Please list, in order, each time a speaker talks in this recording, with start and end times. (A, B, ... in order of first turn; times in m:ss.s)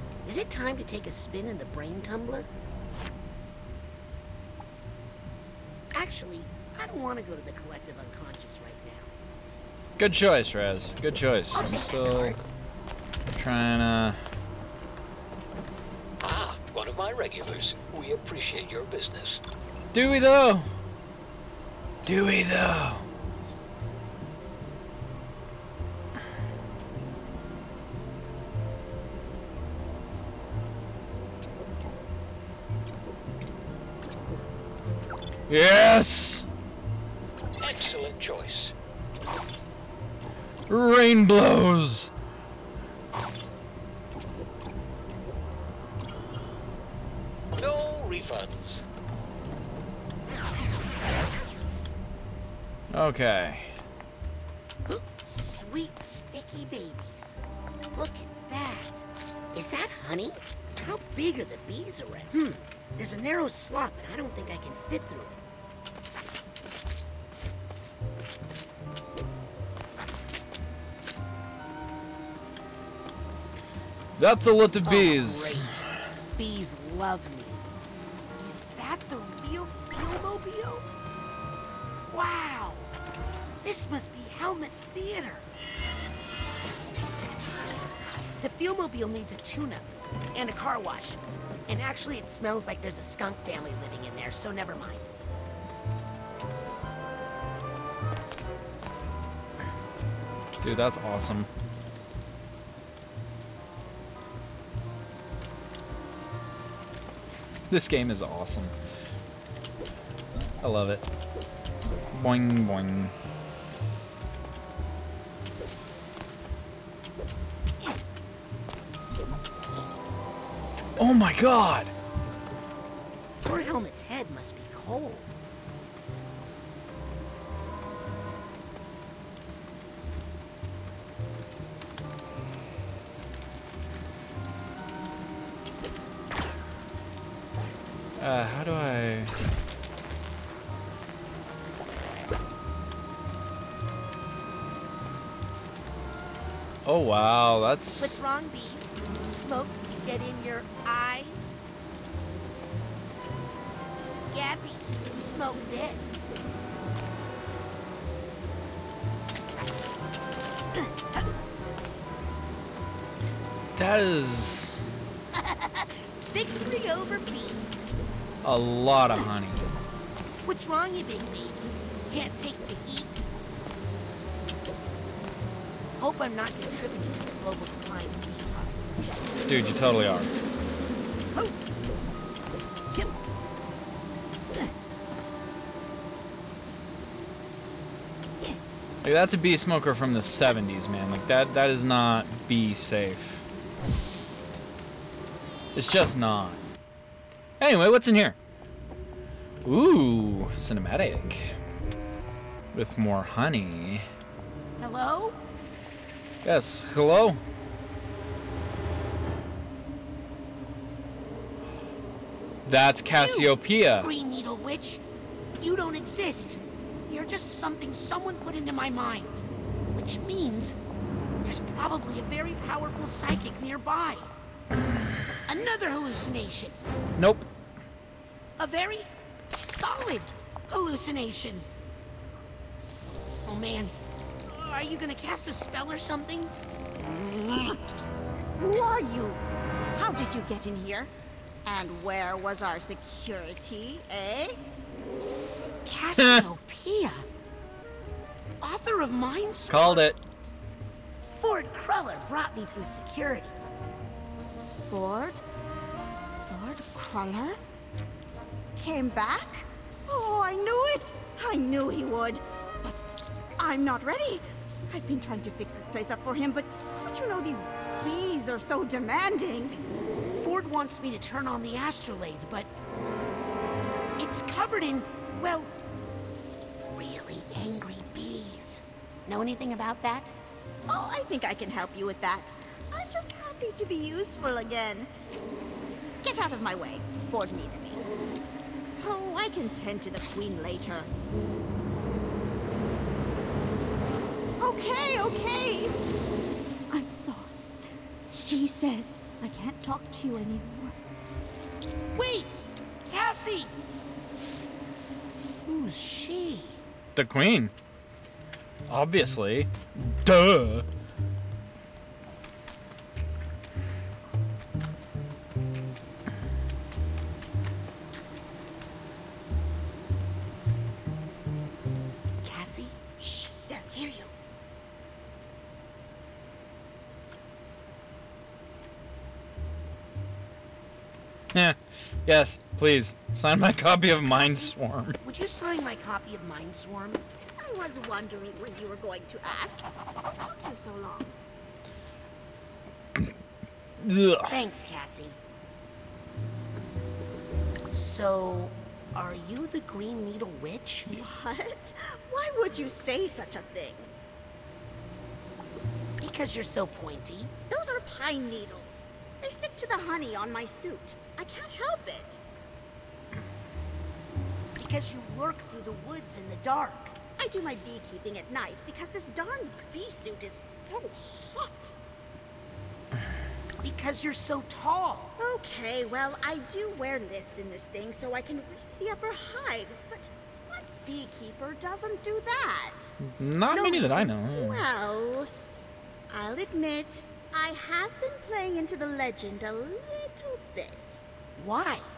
0:00.2-0:02.5 A
0:05.9-0:09.1 A
0:10.0-0:12.4 B
0:11.5-0:12.4 A
0:13.3-0:14.2 B
0:16.2-0:19.4 C
0:19.9-0:20.7 B
0:22.0-0:23.0 B
0:35.5-0:36.5 B
0:37.6-0:38.7 C
0:40.7-0:42.1 B
0:47.5-0:48.8 C
0:52.9-0:53.8 B
0:54.9-0:57.4 A
0:57.9-1:05.4 A
1:14.2-1:15.7 B
1:14.8-1:17.6 A
1:18.4-1:20.9 A
1:22.1-1:22.9 A
1:23.6-1:25.5 A
1:28.4-1:35.1 A
1:40.6-1:41.5 B
1:47.7-1:48.7 B
1:50.6-1:51.0 B
1:52.1-1:53.1 B
2:01.0-2:01.9 B
2:03.4-2:05.3 A
2:18.2-2:19.3 B
2:26.8-2:28.1 B
2:28.0-2:31.6 A
2:34.3-2:36.2 A
2:43.8-2:44.8 B
2:45.4-2:48.0 A
2:48.4-2:49.6 B
2:50.4-2:53.3 A
2:56.0-2:59.0 A
2:59.4-3:00.3 B
3:09.0-3:13.4 B
3:15.8-3:16.6 B
3:17.6-3:18.4 B
3:19.6-3:21.6 B
3:22.7-3:24.1 B
3:24.8-3:25.4 A
3:26.4-3:27.4 B
3:32.6-3:34.1 B
3:33.1-3:35.0 A
3:35.6-3:39.4 A
3:39.9-3:40.8 A
3:41.4-3:44.3 A
3:45.5-3:46.8 A
3:47.2-3:47.5 B
3:48.6-3:51.7 A
3:53.5-3:53.9 A
3:54.5-3:56.5 A
3:57.2-3:57.8 D
3:58.6-3:59.4 D
4:00.0-4:01.1 D
4:01.6-4:04.6 D
4:05.8-4:07.3 A
4:08.6-4:10.1 A
4:09.7-4:10.2 B
4:11.3-4:13.5 A
4:14.9-4:15.4 D
4:16.5-4:17.6 D
4:18.8-4:23.0 D
4:23.6-4:29.8 D
4:30.4-4:32.7 A
4:34.2-4:35.7 A
4:36.9-4:40.4 A
4:40.9-4:45.1 D
4:46.2-4:48.0 D
4:49.0-4:51.1 D
4:54.6-4:56.0 D
4:56.9-4:57.5 D
4:58.3-5:01.0 D
5:02.1-5:02.5 A
5:03.1-5:03.7 A
5:05.6-5:06.8 A
5:07.2-5:07.7 B
5:08.9-5:10.9 B
5:22.4-5:23.4 A
5:23.5-5:24.3 D
5:31.5-5:35.2 B
5:35.2-5:37.2 A
5:37.6-5:41.3 D
5:44.0-5:44.6 B
5:44.5-5:45.4 A
5:47.9-5:51.3 A
5:51.1-5:54.1 D
5:56.2-5:57.5 A
5:57.7-6:02.4 D
6:04.8-6:07.2 A
6:07.4-6:11.9 D
6:13.8-6:15.4 A
6:15.4-6:23.1 D
6:23.2-6:24.8 B
6:23.7-6:25.5 D
6:26.3-6:31.2 D
6:31.6-6:32.1 A